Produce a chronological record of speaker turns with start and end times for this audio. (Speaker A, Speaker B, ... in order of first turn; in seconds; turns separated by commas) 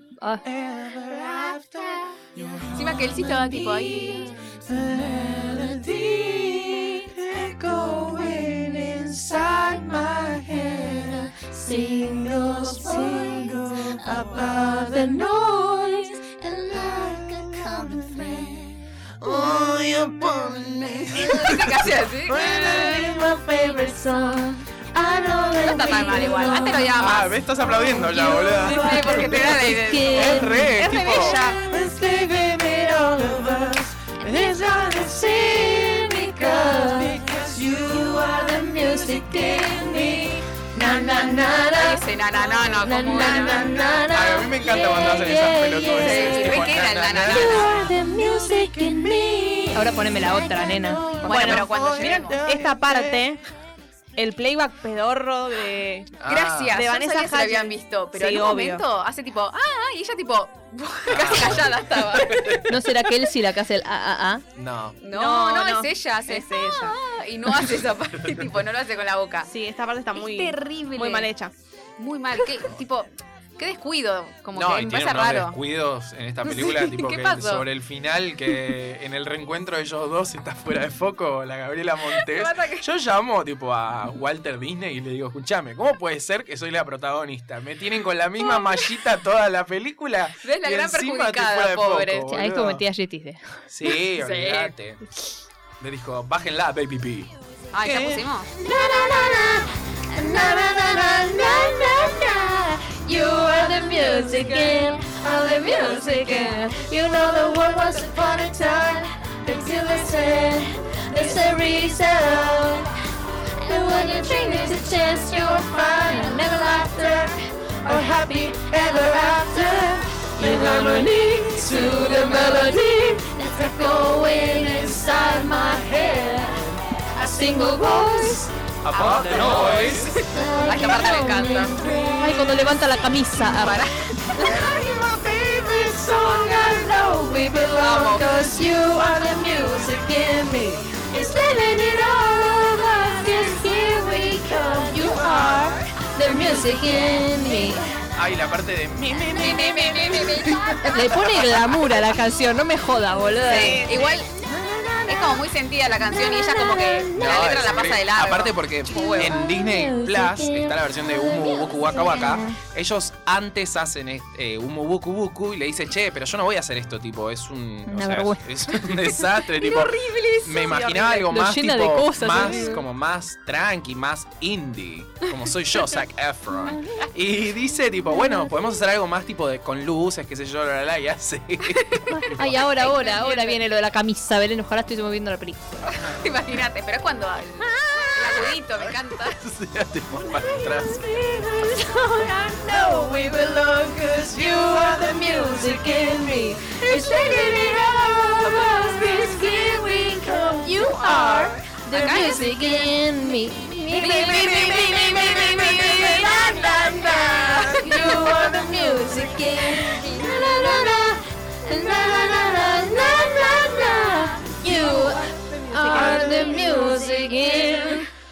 Speaker A: 0.2-0.4, Speaker B: 0.4-53.3, Speaker C: 2.8-4.3, Speaker D: 19.2-20.2, Speaker D: 21.1-22.0, Speaker C: 21.3-23.0, Speaker C: 25.6-27.3, Speaker D: 27.0-31.4, Speaker C: 28.6-31.6, Speaker C: 41.7-43.9, Speaker A: 42.8-45.0, Speaker D: 43.9-47.9, Speaker A: 45.8-46.5, Speaker C: 46.0-47.9, Speaker A: 49.7-51.1, Speaker C: 51.2-52.4, Speaker E: 51.2-53.4, Speaker E: 54.2-56.1, Speaker D: 56.2-56.8, Speaker C: 56.2-62.7, Speaker E: 56.7-58.8, Speaker D: 61.1-62.7, Speaker A: 62.7-64.4, Speaker D: 64.5-65.0, Speaker C: 65.0-69.5, Speaker E: 65.1-67.0, Speaker E: 69.5-71.5, Speaker C: 70.1-71.3, Speaker C: 72.0-75.6, Speaker D: 74.5-92.8, Speaker C: 76.4-77.6, Speaker C: 82.1-82.9, Speaker C: 90.4-92.3, Speaker A: 92.3-93.6, Speaker D: 93.7-95.0, Speaker C: 94.2-94.7, Speaker D: 95.8-97.3, Speaker C: 97.7-98.5, Speaker B: 97.8-112.9, Speaker B: 113.6-132.7, Speaker D: 128.8-130.2, Speaker C: 128.9-129.9, Speaker C: 130.7-131.8, Speaker A: 130.8-131.4, Speaker A: 132.2-133.8, Speaker C: 133.6-134.6, Speaker B: 134.3-147.9, Speaker C: 137.8-138.3, Speaker A: 145.1-147.8, Speaker D: 148.1-150.3, Speaker B: 149.3-151.3, Speaker C: 149.4-151.3, Speaker A: 150.9-153.9, Speaker D: 151.2-151.6, Speaker C: 153.4-154.3, Speaker E: 153.5-154.1, Speaker B: 153.5-155.4, Speaker C: 155.1-159.4, Speaker B: 156.1-157.4, Speaker D: 157.1-182.5, Speaker B: 159.0-162.5, Speaker A: 167.9-168.8, Speaker C: 169.5-171.2, Speaker E: 170.6-171.2, Speaker A: 171.3-172.8, Speaker C: 181.7-183.6, Speaker A: 182.1-185.7, Speaker C: 185.8-189.4, Speaker B: 187.8-188.4, Speaker D: 188.8-191.1, Speaker B: 190.2-202.8, Speaker A: 200.7-204.5, Speaker C: 201.9-202.5, Speaker B: 203.9-217.9, Speaker C: 203.9-206.4, Speaker A: 207.8-210.9, Speaker C: 210.0-210.9, Speaker A: 212.0-218.1, Speaker E: 215.1-216.6, Speaker C: 216.1-218.0